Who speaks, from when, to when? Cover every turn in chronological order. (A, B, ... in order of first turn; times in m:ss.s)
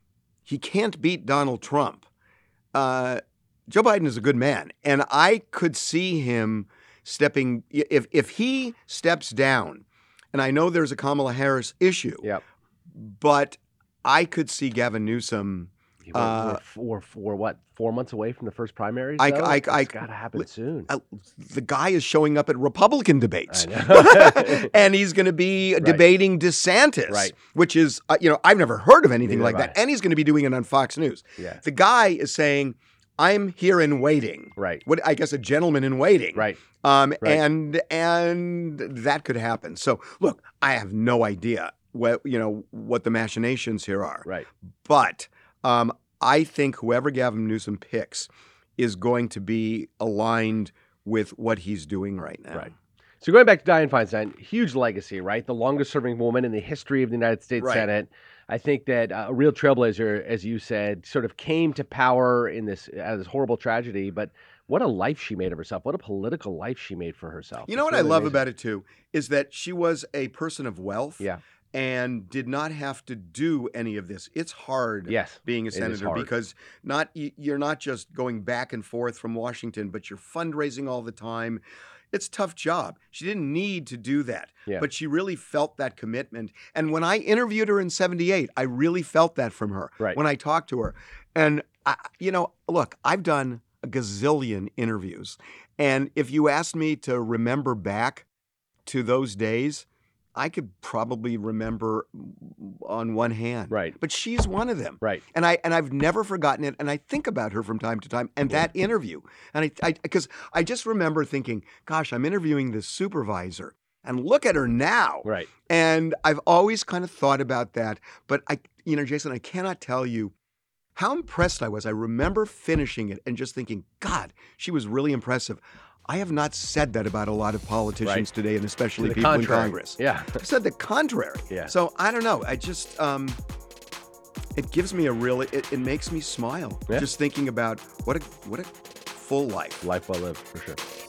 0:00.4-0:02.0 A
0:02.7-0:12.3 A
0:13.0-0:16.6 A
0:16.0-0:20.9 B
0:19.2-0:44.2 A
0:23.5-0:24.7 B
0:25.8-0:26.0 B
0:27.1-0:27.3 B
0:29.2-0:29.7 B
0:34.6-0:34.8 B
0:36.4-0:36.6 B
0:44.8-0:52.7 A
0:52.5-1:08.4 B
0:57.6-0:57.9 A
1:07.7-1:38.2 A
1:15.1-1:16.3 B
1:38.8-2:00.3 A
1:43.7-1:44.0 B
1:55.2-1:55.5 B
2:01.0-2:13.4 A
2:09.0-2:10.4 B
2:14.6-2:19.8 A
2:19.8-2:20.8 B